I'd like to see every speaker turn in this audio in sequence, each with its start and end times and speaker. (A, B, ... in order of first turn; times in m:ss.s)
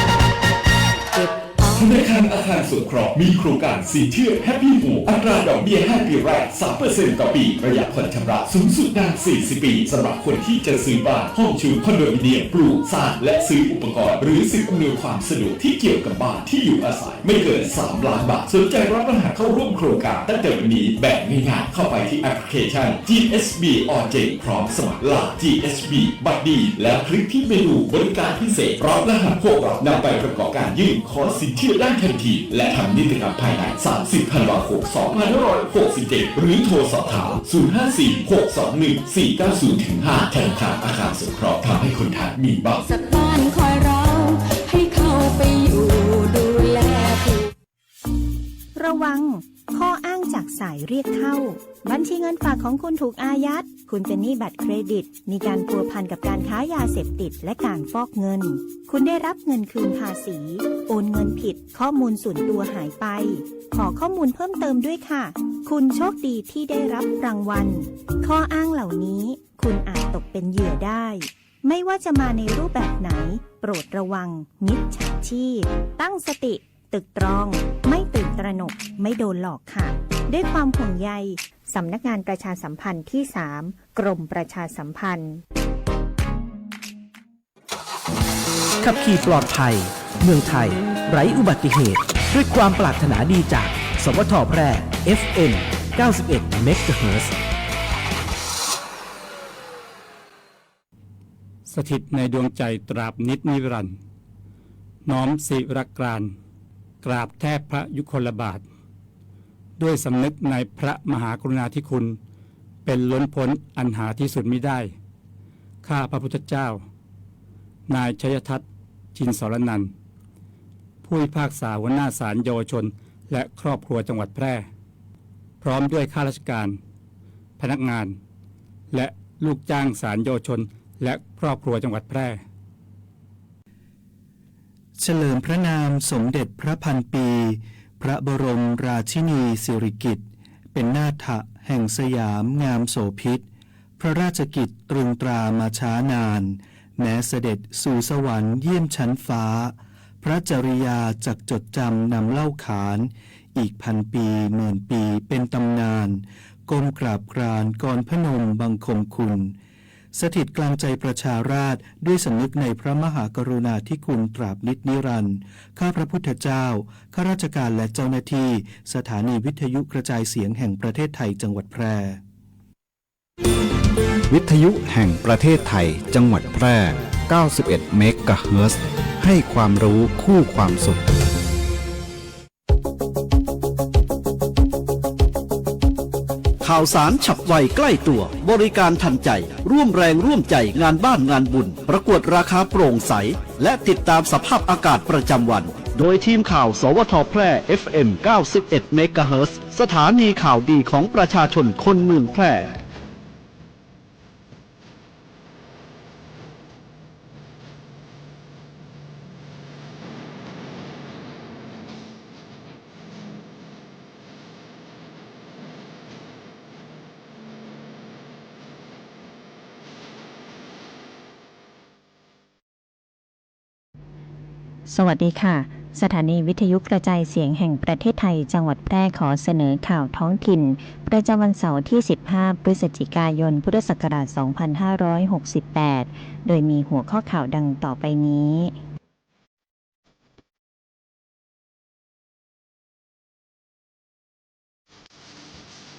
0:01.2-0:01.6 A
0:01.6-0:42.8 B
0:42.8-0:47.5 A
0:48.8-1:25.4 C
1:28.8-1:37.3 D
1:41.7-1:44.0 E
1:45.0-1:46.4 E
1:47.0-1:48.6 E
1:49.8-1:52.2 E
1:52.8-1:54.9 E
1:55.8-1:56.8 E
1:57.9-1:58.6 E
1:59.2-1:59.9 E
2:01.0-2:04.7 E
2:05.6-2:06.8 E
2:07.6-2:08.2 E
2:08.9-2:12.4 E
2:15.0-2:23.4 F
2:24.0-2:39.6 F
2:40.1-2:52.2 F
2:54.3-3:01.0 G
3:06.6-3:22.8 H
3:44.9-3:58.8 C